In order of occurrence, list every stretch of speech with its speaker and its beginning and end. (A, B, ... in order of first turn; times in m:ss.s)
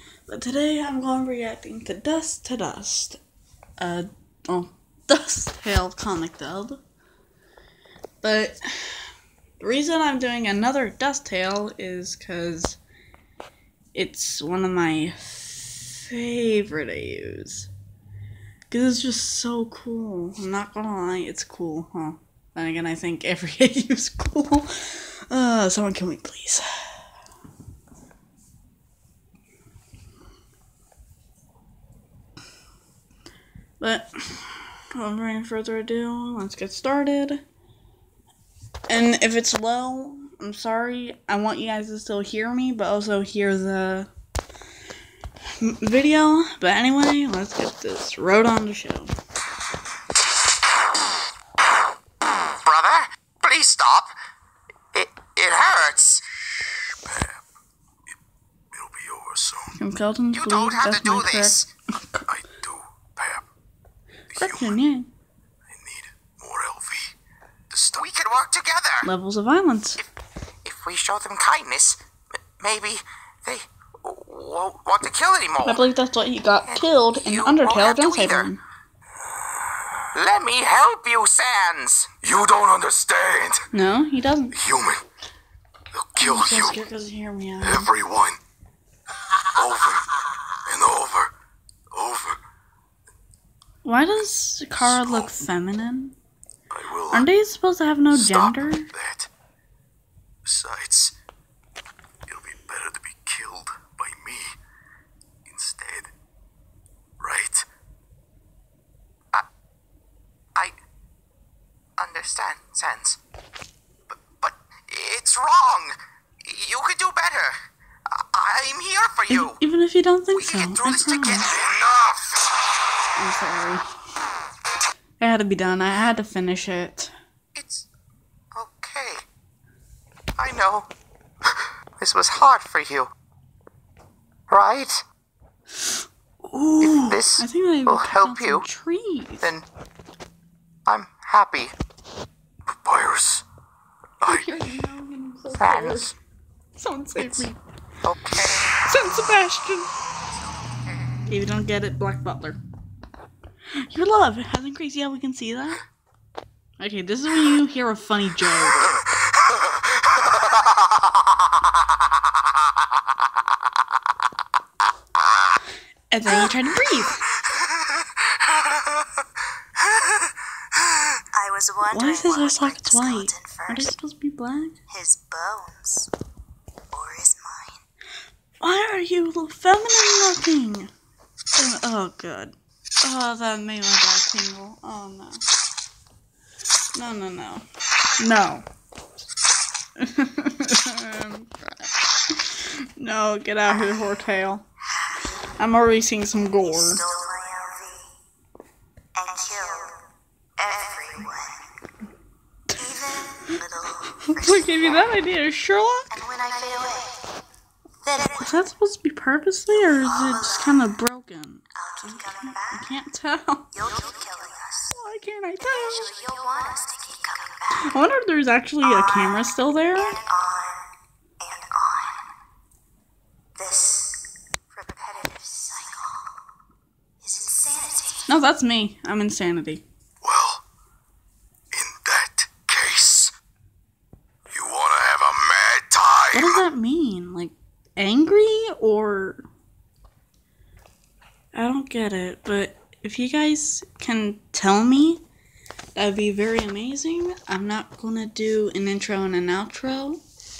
0:00.3-0:03.2 A
0:03.8-0:06.8 A
0:08.2-0:09.1 A
0:09.6-0:12.8 A
0:13.9-0:17.7 A
0:18.7-0:26.7 A
0:33.8-0:37.4 A
0:38.9-0:44.1 A
0:45.6-0:49.1 A
0:52.6-0:54.1 B
0:54.9-0:56.2 B
0:56.6-0:57.4 C
0:58.7-0:59.7 C
0:59.8-1:02.3 A
1:00.3-1:01.7 B
1:02.3-1:03.5 C
1:04.3-1:04.8 C
1:04.3-1:05.1 A
1:05.7-1:07.2 C
1:07.7-1:08.0 C
1:07.9-1:09.1 B
1:09.0-1:10.1 A
1:10.6-1:12.0 B
1:12.6-1:15.8 B
1:15.6-1:18.6 A
1:16.6-1:18.5 B
1:20.1-1:22.2 B
1:22.2-1:23.7 C
1:23.7-1:24.6 A
1:24.6-1:25.0 C
1:25.9-1:26.8 C
1:26.2-1:27.9 A
1:27.6-1:28.4 C
1:29.6-1:30.1 C
1:30.7-1:31.3 C
1:31.9-1:32.4 C
1:33.8-1:36.2 A
1:34.8-1:35.3 C
1:36.7-1:37.3 C
1:37.1-1:38.9 A
1:38.1-1:39.3 C
1:40.4-1:41.1 C
1:42.3-1:44.6 C
1:45.5-1:46.1 C
1:47.2-1:47.7 C
1:52.0-1:53.2 B
1:54.1-1:57.6 B
1:58.1-1:59.6 B
1:59.3-2:01.5 A
2:00.3-2:02.2 B
2:03.2-2:03.8 A
2:05.2-2:07.1 A
2:07.6-2:07.9 B
2:08.5-2:09.2 B
2:10.4-2:10.9 B
2:11.5-2:13.1 B
2:14.5-2:15.0 B
2:16.4-2:19.5 A
2:16.8-2:18.6 B
2:19.4-2:19.7 B
2:20.9-2:21.7 B
2:22.7-2:23.4 C
2:24.2-2:26.2 A
2:25.5-2:26.2 B
2:26.8-2:27.6 A
2:27.2-2:27.5 B
2:28.0-2:28.7 B
2:28.4-2:29.9 A
2:31.3-2:32.6 A
2:33.8-2:35.8 A
2:36.8-2:38.9 A
2:40.2-2:41.0 B
2:46.1-2:47.3 A
2:51.3-2:53.9 D
2:51.9-2:54.8 A
2:54.9-2:56.1 D
2:56.9-2:57.8 D
2:58.6-3:00.9 A
3:01.6-3:05.4 A
3:07.0-3:07.6 A
3:08.2-3:08.6 A
3:10.0-3:14.6 A
3:15.6-3:17.0 A
3:16.6-3:18.1 D
3:19.2-3:20.0 D
3:20.6-3:21.6 D
3:22.8-3:25.0 D
3:24.2-3:26.1 A
3:26.1-3:27.3 D
3:28.0-3:28.5 D
3:28.3-3:33.7 A
3:29.7-3:30.8 D
3:31.8-3:32.9 D
3:33.7-3:34.9 D
3:34.9-3:36.1 A
3:35.6-3:38.0 D
3:37.8-3:40.2 A
3:38.8-3:40.9 D
3:41.4-3:42.3 D
3:43.6-3:46.3 D
3:47.2-3:48.3 D
3:48.3-3:49.8 A
3:50.2-3:50.6 C
3:51.7-3:53.3 C
3:54.5-3:56.6 C
3:56.3-3:59.4 A
4:01.5-4:05.2 A
4:06.0-4:10.2 A